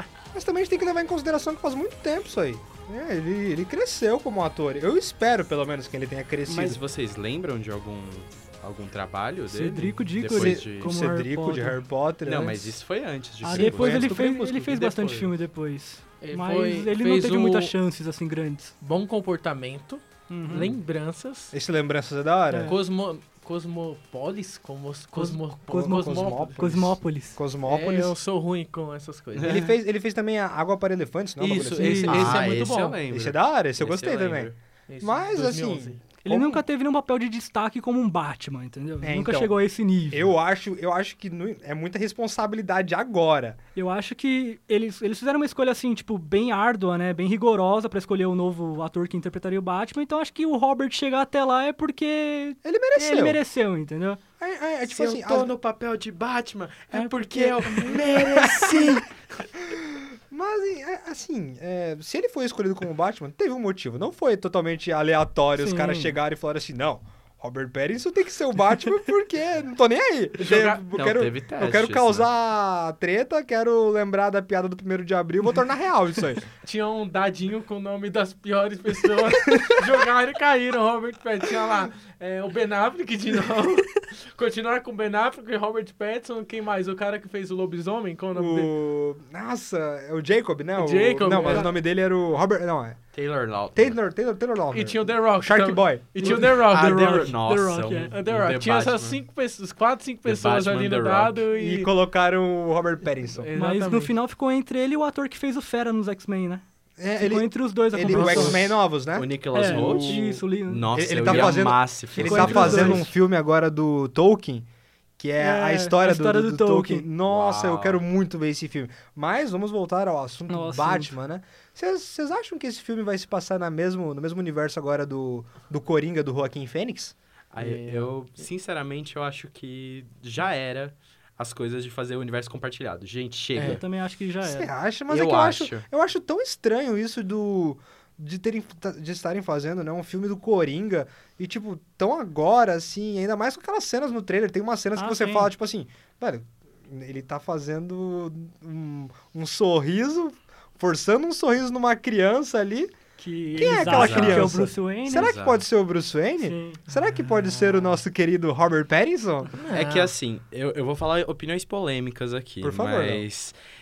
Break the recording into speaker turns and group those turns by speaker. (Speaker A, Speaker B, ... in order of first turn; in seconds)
Speaker A: 0.3-6.8, 10.3-12.8, 13.5-14.7, 21.5-22.7, 25.9-28.1, 29.4-32.4, 33.1-36.6, 39.0-39.5, 40.1-43.6, 52.6-53.4, 54.4-55.5, 58.1-59.0, 59.7-76.5, 88.3-93.0, 93.7-96.5, 101.5-103.5, 107.0-114.7, 115.2-127.1, 134.4-152.9, 153.5-159.5, 162.6-163.2
Speaker B: 6.5-10.9, 12.2-14.1, 14.7-15.3, 29.4-29.7, 32.1-34.6, 54.9-59.1, 70.9-72.3, 93.1-94.0, 96.6-99.2, 100.2-101.4, 109.1-113.1, 117.3-118.0, 127.5-133.8, 135.1-135.9, 153.9-154.5, 155.2-155.6, 159.7-163.6
Speaker C: 9.5-11.8, 13.4-18.7, 20.3-20.7, 22.5-22.7, 25.1-27.4, 31.8-32.4, 36.2-40.3, 43.7-54.2, 56.9-57.9, 65.5-66.2, 91.4-91.7, 96.2-98.1, 103.5-106.6, 107.2-108.8, 109.5-113.1, 115.4-117.1, 120.5-121.1, 133.7-134.7, 144.9-145.5, 153.2-155.3, 156.4-156.8
Speaker D: 16.2-17.7, 18.8-21.5, 22.6-26.6, 27.6-29.6, 31.4-33.0, 34.9-36.0, 70.4-70.8, 76.6-88.7, 90.7-91.7, 94.7-97.1, 98.1-101.9, 103.4-104.1, 108.1-108.6, 127.6-128.1, 133.5-133.8, 159.6-160.1